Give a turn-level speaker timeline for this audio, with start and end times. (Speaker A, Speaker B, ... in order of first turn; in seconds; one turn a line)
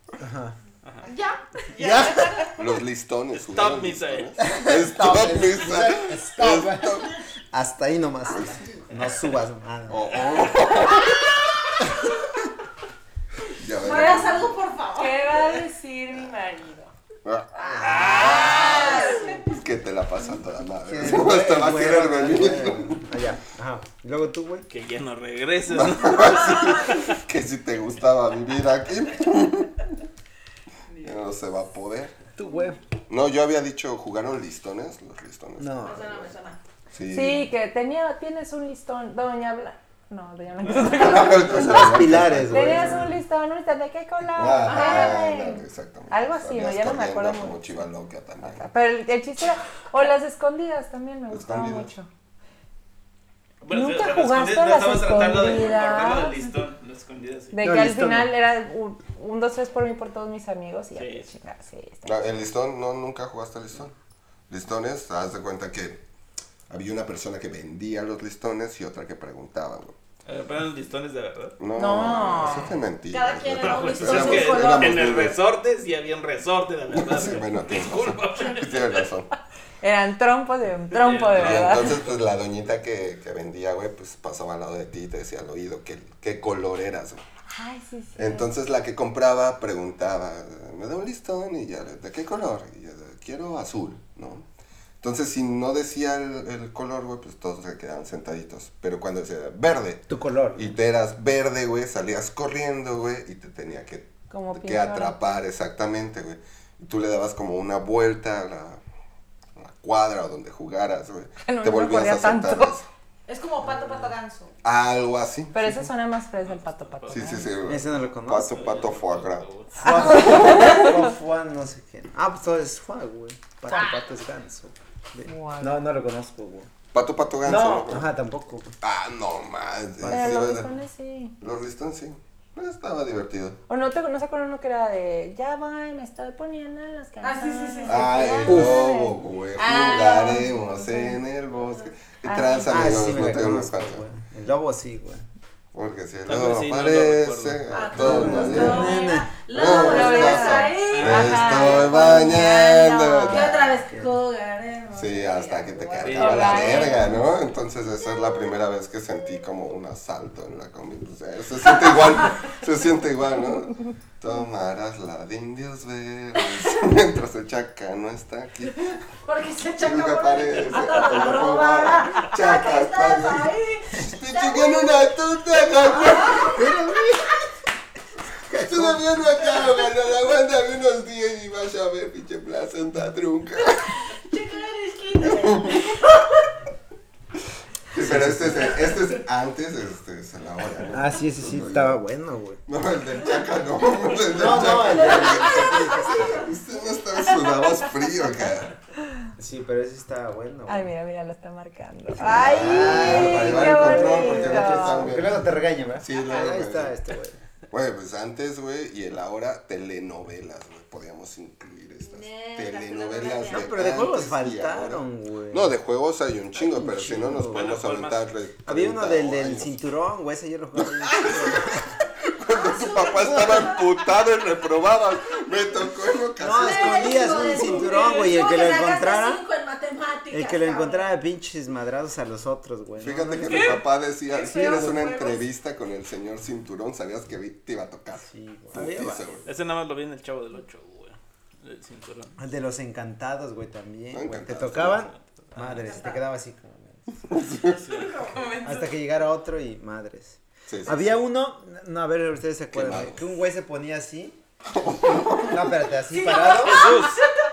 Speaker A: 0.2-0.6
Speaker B: 0.8-1.1
Speaker C: 1.0-2.5
Speaker A: 1.7-2.4
Speaker D: 2.5-7.2
Speaker B: 3.3-4.4
Speaker A: 4.4-10.2
Speaker D: 9.9-11.3
Speaker D: 13.6-14.6
Speaker C: 13.7-15.3
Speaker E: 13.9-14.2
Speaker E: 14.9-16.9
Speaker D: 17.2-23.0
Speaker A: 17.6-18.5
Speaker C: 17.8-19.3
Speaker B: 18.1-18.6
Speaker A: 20.8-24.7
Speaker B: 24.7-27.2
Speaker D: 25.7-29.9
Speaker D: 31.0-32.2
Speaker A: 32.3-32.8
Speaker D: 33.1-36.3
Speaker A: 35.6-36.1
Speaker C: 35.8-36.6
Speaker D: 36.9-37.5
Speaker E: 37.1-47.7
Speaker D: 40.7-43.1
Speaker A: 41.4-43.0
Speaker D: 44.3-48.6
Speaker C: 44.6-45.3
Speaker E: 48.5-52.1
Speaker D: 51.3-51.9
Speaker B: 53.6-57.5
Speaker E: 53.7-56.5
Speaker E: 57.5-62.2
Speaker A: 57.6-58.3
Speaker B: 61.0-61.3
Speaker D: 62.0-63.9
Speaker D: 64.5-66.0
Speaker D: 66.7-70.0
Speaker B: 70.2-71.6
Speaker D: 71.6-75.4
Speaker E: 71.7-72.7
Speaker C: 73.1-75.1
Speaker B: 73.6-79.1
Speaker D: 76.9-79.3
Speaker E: 79.8-81.9
Speaker B: 80.9-81.9
Speaker D: 81.3-87.2
Speaker E: 87.5-88.5
Speaker D: 88.2-94.5
Speaker D: 95.0-108.8
Speaker A: 100.1-100.8
Speaker E: 104.3-105.4
Speaker D: 109.6-112.9
Speaker E: 111.4-112.8
Speaker C: 113.3-114.5
Speaker A: 113.6-114.1
Speaker D: 114.6-115.9
Speaker E: 115.5-117.5
Speaker B: 116.4-117.4
Speaker D: 117.1-121.0
Speaker A: 117.6-118.6
Speaker B: 118.5-119.8
Speaker A: 119.8-126.7
Speaker E: 120.2-120.8
Speaker E: 125.3-125.7
Speaker D: 126.9-128.1
Speaker A: 127.4-128.7
Speaker D: 128.8-130.7
Speaker A: 130.0-130.4
Speaker E: 130.1-131.3
Speaker D: 131.4-133.6
Speaker E: 133.7-140.4
Speaker C: 137.2-138.5
Speaker D: 137.8-144.0
Speaker A: 138.4-138.9
Speaker C: 139.6-140.6
Speaker E: 142.2-143.0
Speaker A: 142.7-145.3
Speaker D: 145.7-153.8
Speaker B: 146.2-147.7
Speaker C: 147.7-157.1
Speaker A: 147.9-149.3
Speaker E: 149.7-153.5
Speaker B: 150.9-151.5
Speaker A: 153.8-154.2
Speaker D: 154.9-168.9
Speaker B: 156.0-156.9
Speaker E: 156.1-157.2
Speaker C: 169.2-176.6
Speaker D: 169.7-176.6
Speaker A: 176.4-177.4
Speaker A: 178.5-179.1
Speaker D: 178.5-184.1
Speaker C: 184.1-186.3
Speaker D: 185.2-186.0
Speaker D: 187.9-192.0
Speaker A: 188.0-188.8
Speaker C: 188.5-188.9
Speaker A: 190.9-192.6
Speaker D: 192.7-198.8
Speaker A: 194.3-196.4
Speaker C: 194.8-196.4
Speaker A: 199.4-200.9
Speaker E: 200.7-205.1
Speaker D: 202.2-207.0
Speaker A: 202.2-207.4
Speaker D: 207.7-219.8
Speaker C: 212.0-213.9
Speaker A: 213.5-215.7
Speaker A: 216.5-217.7
Speaker B: 217.5-218.3
Speaker A: 218.6-221.9
Speaker D: 220.8-227.9
Speaker C: 222.6-224.0
Speaker A: 226.4-229.4
Speaker C: 226.5-231.1
Speaker A: 230.3-233.8
Speaker D: 233.0-239.5
Speaker C: 233.5-235.4
Speaker A: 238.2-239.4
Speaker B: 239.4-242.4
Speaker A: 242.4-247.3
Speaker D: 244.1-245.1
Speaker B: 244.9-246.0
Speaker C: 245.6-246.2
Speaker D: 247.3-247.8
Speaker B: 247.7-248.4
Speaker C: 247.9-248.8
Speaker A: 248.6-254.4
Speaker D: 250.7-251.2
Speaker D: 252.7-253.2
Speaker D: 254.7-255.7
Speaker A: 255.0-257.1
Speaker C: 256.2-257.3
Speaker B: 256.5-257.2